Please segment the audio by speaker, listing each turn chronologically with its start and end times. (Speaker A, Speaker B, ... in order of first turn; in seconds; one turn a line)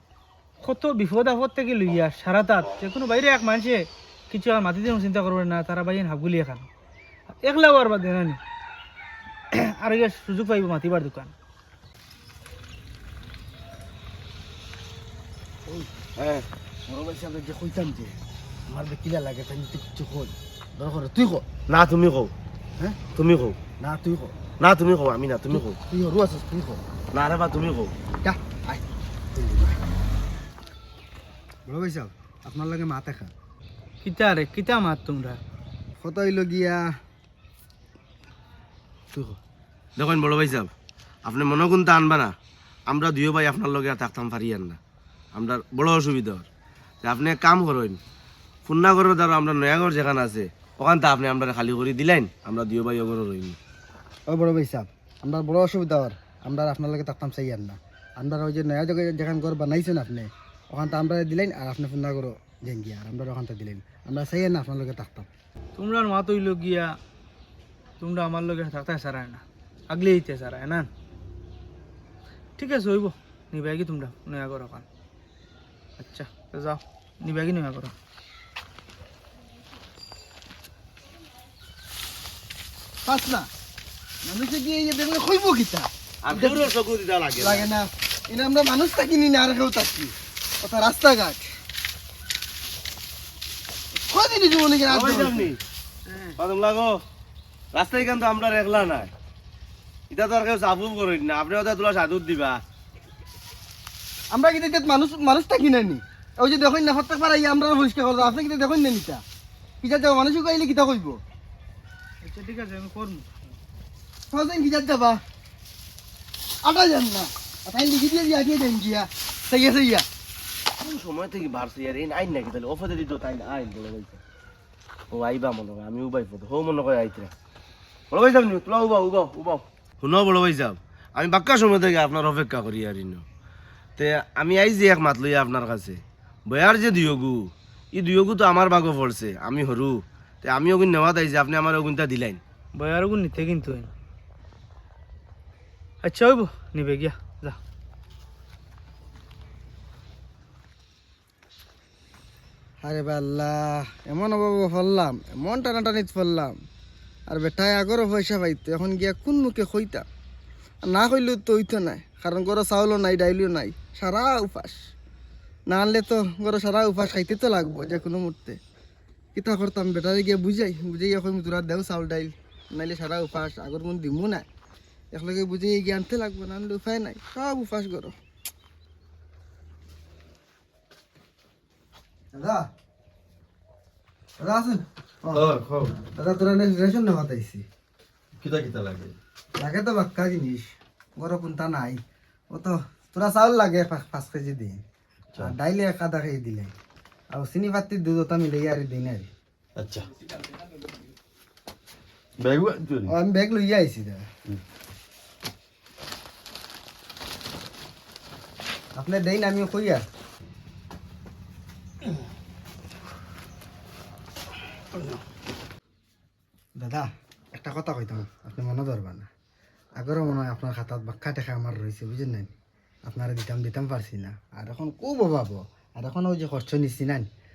Speaker A: 0.6-6.7
Speaker A: 7.4-8.4
Speaker A: 9.5-11.3
Speaker B: 16.2-16.5
Speaker C: 16.9-18.2
Speaker C: 18.7-21.5
Speaker B: 21.7-22.3
Speaker B: 23.1-23.6
Speaker C: 23.8-24.3
Speaker B: 24.6-25.8
Speaker C: 25.5-26.8
Speaker B: 27.1-27.9
Speaker C: 28.2-29.8
Speaker C: 31.7-33.3
Speaker A: 34.0-35.4
Speaker C: 36.0-36.9
Speaker C: 39.1-39.4
Speaker B: 40.0-40.7
Speaker B: 41.2-42.3
Speaker B: 42.9-44.8
Speaker B: 45.3-46.5
Speaker B: 47.0-48.0
Speaker B: 48.7-53.6
Speaker C: 54.3-65.3
Speaker A: 65.8-66.9
Speaker A: 68.0-70.9
Speaker A: 72.6-74.8
Speaker A: 76.0-77.9
Speaker C: 83.0-83.5
Speaker C: 84.2-86.7
Speaker B: 86.2-87.7
Speaker C: 87.4-91.5
Speaker C: 93.9-95.5
Speaker B: 94.9-95.6
Speaker B: 96.4-97.0
Speaker B: 97.7-99.1
Speaker B: 100.1-102.6
Speaker C: 104.3-109.2
Speaker C: 109.8-111.2
Speaker A: 112.2-113.6
Speaker C: 114.3-115.2
Speaker C: 116.6-120.0
Speaker B: 120.8-124.2
Speaker B: 125.1-127.3
Speaker B: 128.1-133.2
Speaker B: 134.0-142.4
Speaker A: 142.8-143.9
Speaker A: 146.0-147.6
Speaker C: 152.8-156.5
Speaker C: 157.3-160.0
Speaker C: 160.8-164.8
Speaker C: 165.7-168.6
Speaker C: 169.3-174.4
Speaker C: 175.1-178.1
Speaker C: 182.3-182.7
Speaker C: 184.4-185.4
Speaker D: 185.3-186.0
Speaker C: 186.1-187.6
Speaker D: 188.4-189.2
Speaker C: 189.6-194.8
Speaker C: 195.4-196.7
Speaker C: 197.3-199.3
Speaker D: 199.8-200.1
Speaker D: 202.4-203.1
Speaker C: 203.1-204.2
Speaker C: 208.9-210.0
Speaker C: 216.8-219.3
Speaker C: 220.0-222.5
Speaker C: 223.1-227.3